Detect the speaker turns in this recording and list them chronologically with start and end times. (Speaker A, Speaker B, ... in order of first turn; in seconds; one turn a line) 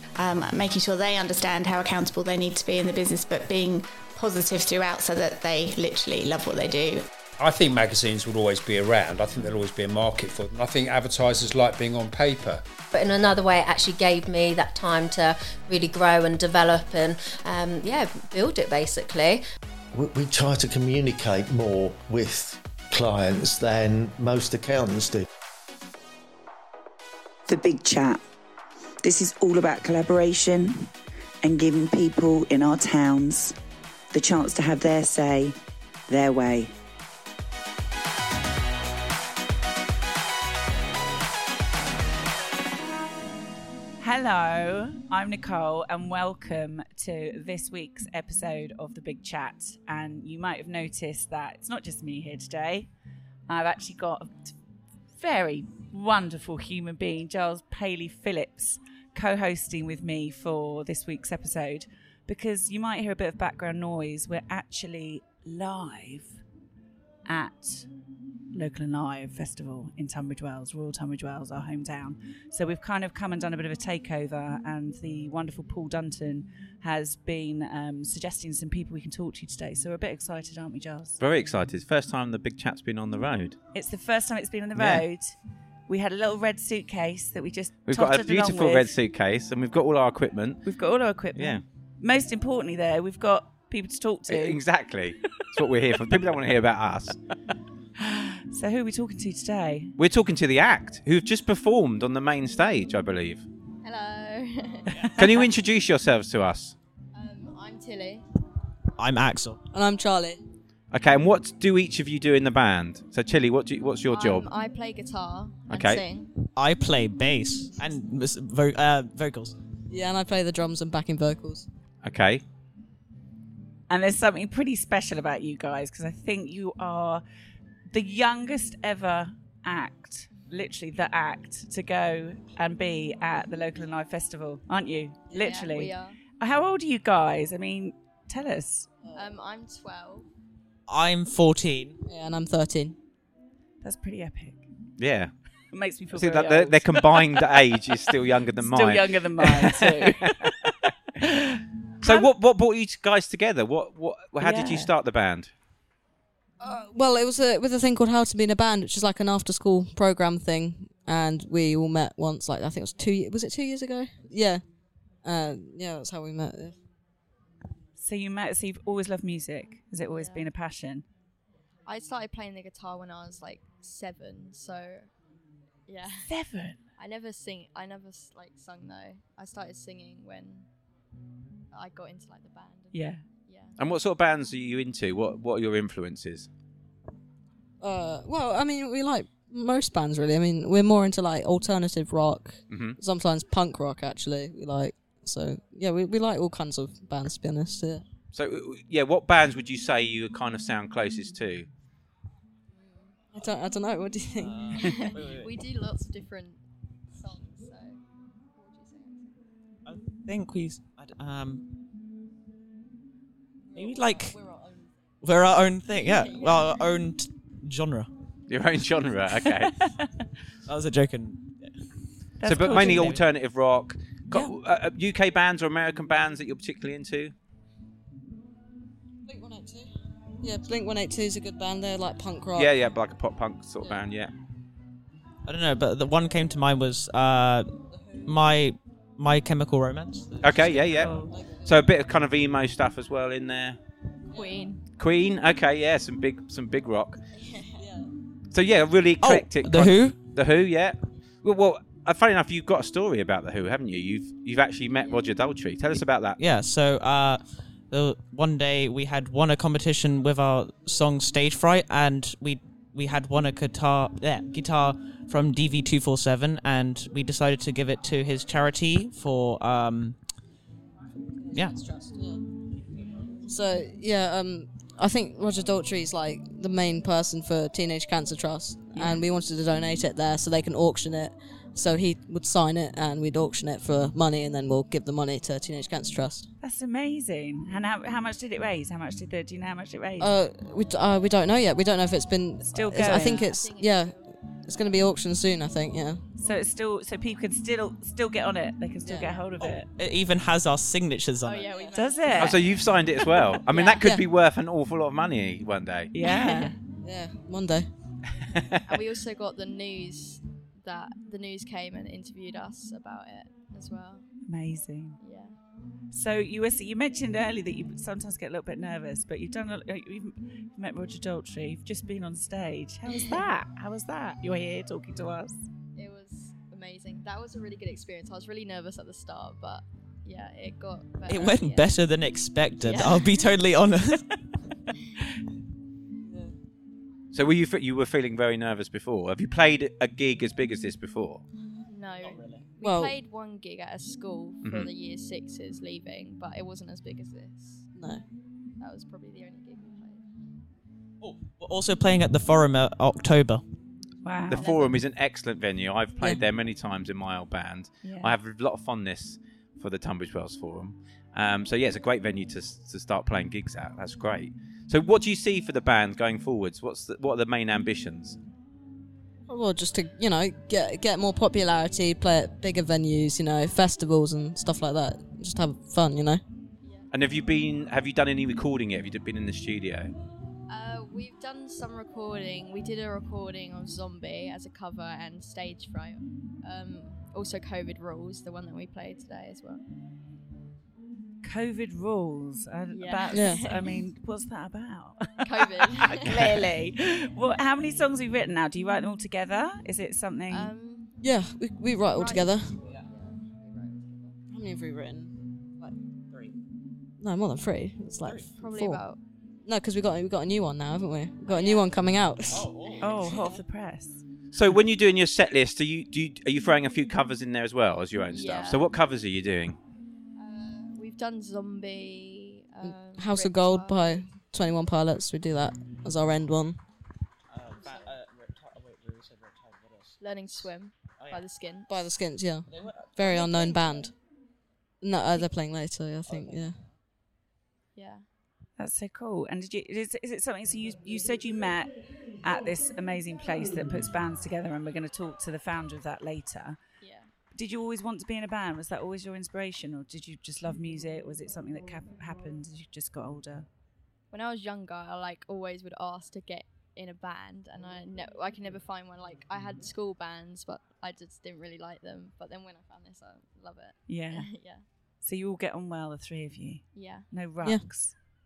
Speaker A: 0.2-7.1
Speaker B: 7.4-12.6
Speaker C: 12.9-19.4
Speaker D: 19.9-25.2
Speaker E: 27.5-28.2
Speaker E: 29.0-30.9
Speaker E: 31.4-33.5
Speaker E: 34.1-35.6
Speaker E: 36.1-36.7
Speaker F: 44.0-52.9
Speaker F: 53.5-54.5
Speaker F: 55.1-66.4
Speaker F: 67.3-67.9
Speaker F: 68.5-81.2
Speaker G: 81.2-83.6
Speaker F: 83.7-85.4
Speaker G: 84.8-85.0
Speaker F: 85.9-88.9
Speaker G: 87.9-90.7
Speaker F: 90.7-94.6
Speaker G: 91.3-91.6
Speaker G: 94.3-97.2
Speaker F: 98.0-100.0
Speaker G: 100.0-103.5
Speaker H: 103.8-105.5
Speaker I: 104.9-105.2
Speaker G: 105.2-106.8
Speaker H: 107.1-108.2
Speaker I: 109.0-109.6
Speaker J: 109.7-110.4
Speaker G: 110.9-114.5
Speaker H: 114.1-116.3
Speaker G: 115.7-116.0
Speaker I: 116.5-119.5
Speaker J: 119.9-121.7
Speaker G: 122.0-122.4
Speaker F: 123.9-127.2
Speaker F: 127.9-138.9
Speaker J: 135.3-135.6
Speaker H: 135.4-136.2
Speaker H: 139.1-140.3
Speaker I: 140.9-142.0
Speaker J: 142.1-143.0
Speaker F: 143.8-144.7
Speaker G: 145.0-145.3
Speaker F: 145.7-147.8
Speaker G: 146.1-150.1
Speaker F: 148.6-152.3
Speaker G: 152.0-155.5
Speaker F: 154.4-154.9
Speaker J: 156.6-164.6
Speaker J: 165.2-166.8
Speaker F: 168.0-171.1
Speaker H: 170.1-170.5
Speaker H: 171.9-175.1
Speaker H: 175.9-176.3
Speaker F: 176.3-176.8
Speaker H: 177.0-180.7
Speaker H: 181.7-183.8
Speaker F: 182.9-183.2
Speaker G: 183.8-186.5
Speaker J: 187.8-198.0
Speaker G: 192.7-193.0
Speaker G: 198.3-201.7
Speaker H: 202.7-203.2
Speaker J: 203.3-204.8
Speaker I: 204.4-205.6
Speaker H: 204.7-206.6
Speaker H: 207.2-208.0
Speaker H: 208.6-209.4
Speaker I: 209.8-211.6
Speaker H: 213.7-214.9
Speaker I: 213.8-214.4
Speaker I: 215.2-218.1
Speaker H: 215.9-216.8
Speaker G: 218.5-219.7
Speaker F: 219.4-220.1
Speaker I: 220.7-221.6
Speaker F: 222.4-223.2
Speaker G: 222.4-227.3
Speaker I: 222.5-223.2
Speaker J: 229.3-232.7
Speaker G: 232.6-234.3
Speaker I: 235.4-237.7
Speaker J: 238.0-238.3
Speaker I: 238.2-241.2
Speaker G: 240.4-241.1
Speaker F: 241.0-241.3
Speaker J: 241.3-241.8
Speaker G: 241.7-243.8
Speaker J: 244.3-244.6
Speaker H: 244.4-244.8
Speaker G: 245.0-247.2
Speaker J: 247.8-248.1
Speaker G: 248.5-256.4
Speaker I: 249.2-250.2
Speaker I: 256.4-270.2
Speaker J: 271.4-272.4
Speaker J: 273.5-286.5
Speaker F: 286.6-290.3
Speaker J: 290.2-294.1
Speaker F: 292.7-293.5
Speaker H: 292.9-294.2
Speaker J: 294.7-296.2
Speaker F: 296.4-299.9
Speaker J: 299.1-299.4
Speaker I: 299.6-301.9
Speaker H: 301.4-303.0
Speaker F: 301.9-302.7
Speaker G: 302.4-306.1
Speaker H: 303.7-304.1
Speaker F: 306.1-306.8
Speaker J: 306.2-307.9
Speaker H: 308.9-314.3
Speaker F: 314.5-315.2
Speaker H: 315.2-315.6
Speaker F: 316.1-325.6
Speaker H: 325.9-332.0
Speaker I: 331.3-334.2
Speaker H: 332.8-333.5
Speaker J: 336.3-336.5
Speaker G: 337.3-341.4
Speaker H: 341.9-347.9
Speaker I: 342.2-342.6
Speaker J: 342.8-343.1
Speaker G: 344.6-344.9
Speaker J: 348.0-348.2
Speaker H: 348.8-350.2
Speaker I: 351.2-353.6
Speaker F: 354.2-354.8
Speaker G: 354.5-368.4
Speaker H: 354.6-354.9
Speaker F: 358.0-358.4
Speaker J: 369.5-376.4
Speaker H: 376.8-377.1
Speaker G: 377.1-380.1
Speaker H: 380.7-389.9
Speaker F: 391.4-400.7
Speaker H: 392.9-394.0
Speaker J: 393.3-393.7
Speaker H: 395.4-396.6
Speaker H: 400.5-401.2
Speaker J: 401.2-402.7
Speaker H: 402.1-404.4
Speaker J: 404.5-406.0
Speaker J: 407.2-409.0
Speaker I: 408.2-408.5
Speaker H: 408.5-409.2
Speaker J: 409.7-413.6
Speaker H: 411.5-412.0
Speaker I: 412.5-413.3
Speaker F: 413.0-414.2
Speaker G: 414.5-419.8
Speaker H: 418.3-418.9
Speaker H: 420.4-424.3
Speaker J: 422.9-426.8
Speaker I: 427.5-430.2
Speaker H: 427.8-428.1
Speaker H: 430.2-431.9
Speaker I: 431.2-431.4
Speaker J: 431.9-434.2
Speaker I: 432.7-433.7
Speaker J: 435.0-436.8
Speaker I: 436.3-436.9
Speaker H: 437.9-438.3
Speaker F: 438.8-446.8
Speaker H: 447.0-447.3
Speaker F: 447.5-453.7
Speaker H: 454.3-464.9
Speaker F: 464.1-464.5
Speaker F: 465.2-468.2
Speaker H: 466.9-467.3